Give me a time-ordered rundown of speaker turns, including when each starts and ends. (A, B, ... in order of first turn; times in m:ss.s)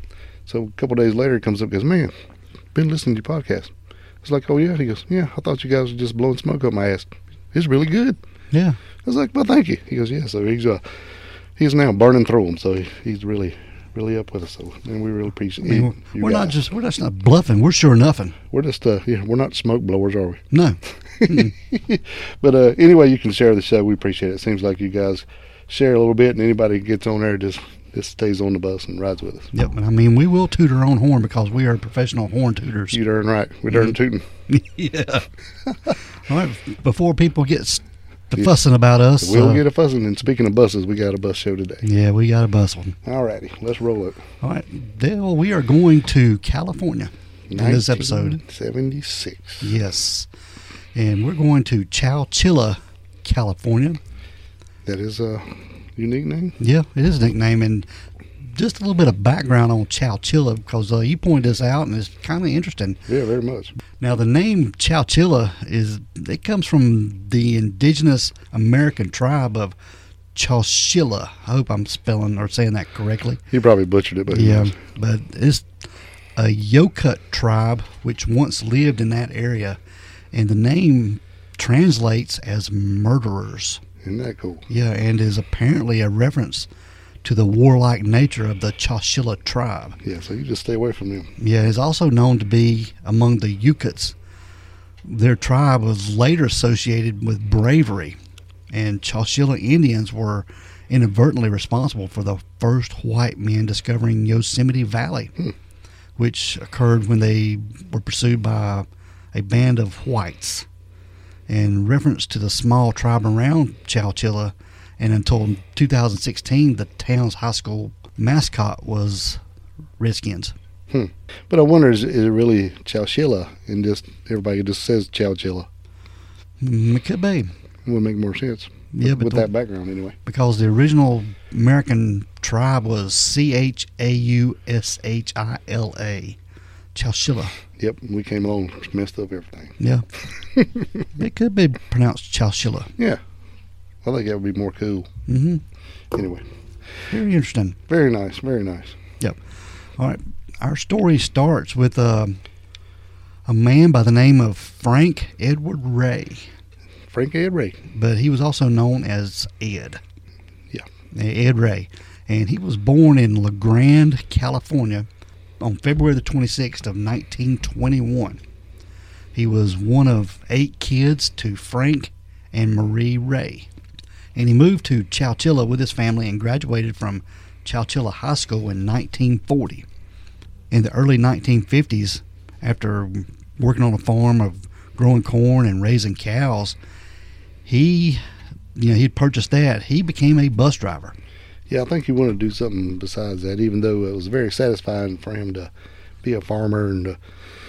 0:00.5-0:02.1 A
0:02.7-0:03.7 A
0:04.2-0:08.2 A
0:08.5-0:08.8 B
0:09.0-0:10.8 A
0:11.6-0:16.6 A
0:15.6-0:18.4 B
0:18.5-0:20.4 A
0:20.5-0:21.5 B
0:21.2-0:29.5 A
0:29.5-0:33.0 B
0:32.9-0:34.3 A
0:34.5-0:35.2 B
0:36.2-0:39.6 B
0:39.2-0:41.8 A
0:41.8-0:43.0 B
0:43.0-0:44.2 A
0:44.4-0:48.4 B
0:47.5-0:49.7 A
0:49.6-0:50.3 B
0:50.9-0:54.0 B
0:54.9-0:56.6 A
0:56.6-0:57.9 B
0:58.5-1:03.0 B
1:03.1-1:03.7 A
1:04.0-1:09.8 B
1:10.3-1:13.4 B
1:13.5-1:14.8 A
1:14.3-1:15.7 B
1:16.4-1:19.8 B
1:20.3-1:23.8 B
1:24.0-1:24.6 A
1:24.7-1:26.7 B
1:27.2-1:30.0 B
1:30.0-1:31.3 A
1:31.4-1:34.2 B
1:35.0-1:38.2 B
1:38.7-1:45.3 B
1:46.2-1:50.6 B
1:51.5-1:59.4 B
2:00.0-2:00.5 B
2:00.9-2:05.7 A
2:06.6-2:07.5 B
2:07.9-2:10.2 A
2:08.9-2:09.5 B
2:10.2-2:16.4 B
2:16.9-2:17.6 B
2:17.8-2:19.8 A
2:19.8-2:20.0 B
2:20.6-2:21.0 A
2:21.1-2:22.9 B
2:24.0-2:25.1 A
2:25.3-2:25.6 B
2:26.1-2:26.4 A
2:27.1-2:27.8 B
2:27.9-2:29.0 A
2:30.0-2:32.4 B
2:33.5-2:36.5 B
2:37.1-2:37.8 A
2:37.9-2:40.0 B
2:41.1-2:45.1 B
2:45.6-2:48.4 B
2:49.3-2:53.7 B
2:54.3-2:59.9 B
3:00.7-3:06.8 B
3:07.6-3:08.2 B
3:08.8-3:11.1 B
3:11.7-3:15.7 A
3:16.2-3:17.2 A